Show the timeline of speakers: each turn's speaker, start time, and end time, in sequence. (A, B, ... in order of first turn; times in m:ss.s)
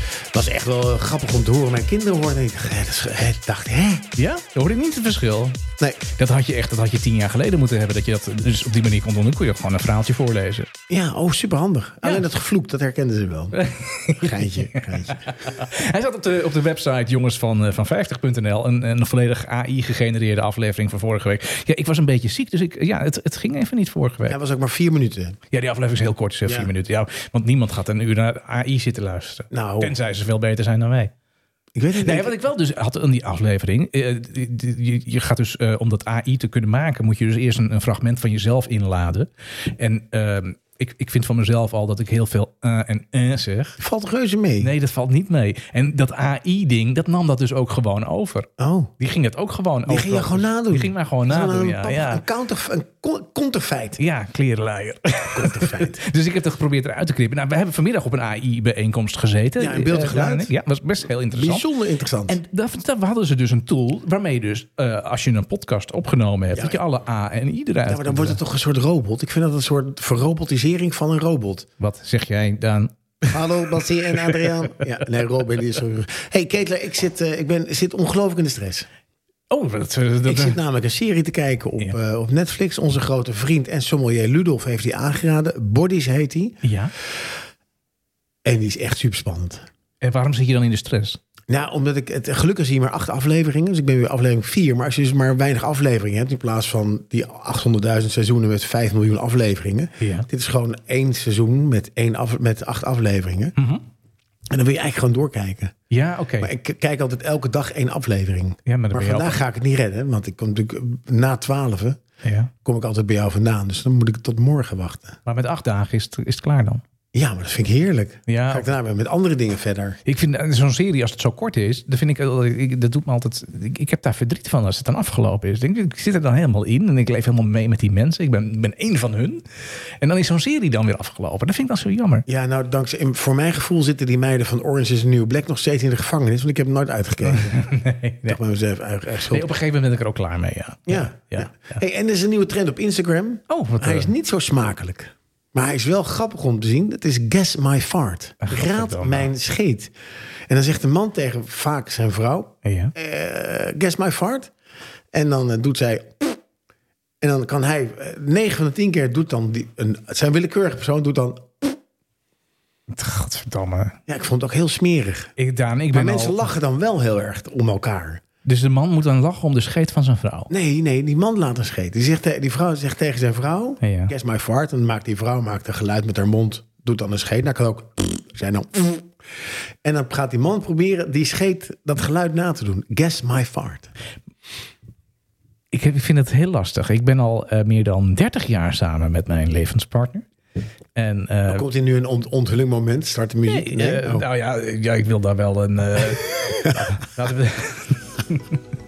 0:00.3-0:04.1 A
0:04.2-0:10.7 B
0:10.9-0:13.6 A
0:13.5-0:24.4 B
0:14.1-0:15.2 A
0:24.3-0:25.4 A
0:25.5-0:31.1 B
0:29.5-0:29.9 A
0:31.7-0:32.4 A
0:32.0-0:43.8 B
0:43.8-0:44.7 A
0:44.6-0:52.2 B
0:48.6-0:48.9 A
0:49.9-0:54.0 A
0:54.0-1:01.6 B
0:55.3-0:56.0 A
0:59.6-1:00.5 A
1:01.3-1:02.4 A
1:02.3-1:08.4 B
1:07.9-1:11.7 A
1:11.8-1:13.6 B
1:13.3-1:18.9 A
1:14.2-1:14.6 B
1:19.5-1:20.6 B
1:20.2-1:26.6 A
1:26.6-1:26.9 B
1:28.4-1:29.6 A
1:30.0-1:31.2 B
1:31.5-1:43.5 A
1:40.0-1:40.3 B
1:43.6-1:43.8 B
1:44.5-1:45.7 A
1:45.9-1:46.5 B
1:46.4-1:52.0 A
1:48.6-1:49.4 B
1:52.2-1:52.5 B
1:52.6-1:55.2 A
1:55.2-1:56.8 B
1:57.1-2:00.0 A
1:58.3-1:58.7 B
2:00.0-2:09.4 B
2:10.0-2:12.2 B
2:12.3-2:17.7 A
2:17.3-2:18.4 B
2:18.2-2:19.6 A
2:19.2-2:21.8 B
2:20.9-2:29.9 A
2:23.5-2:24.1 B
2:28.4-2:29.3 B
2:30.5-2:34.5 A
2:32.6-2:32.9 B
2:35.1-2:36.4 A
2:37.2-2:41.8 A
2:42.9-2:44.0 B
2:44.1-2:45.3 A
2:45.4-2:46.4 B
2:45.9-2:48.2 A
2:48.4-2:50.5 B
2:50.5-2:59.1 A
2:53.8-2:54.1 B
2:59.8-3:03.9 A
3:05.7-3:10.2 B
3:11.0-3:11.6 B
3:11.5-3:14.2 A
3:13.5-3:18.6 B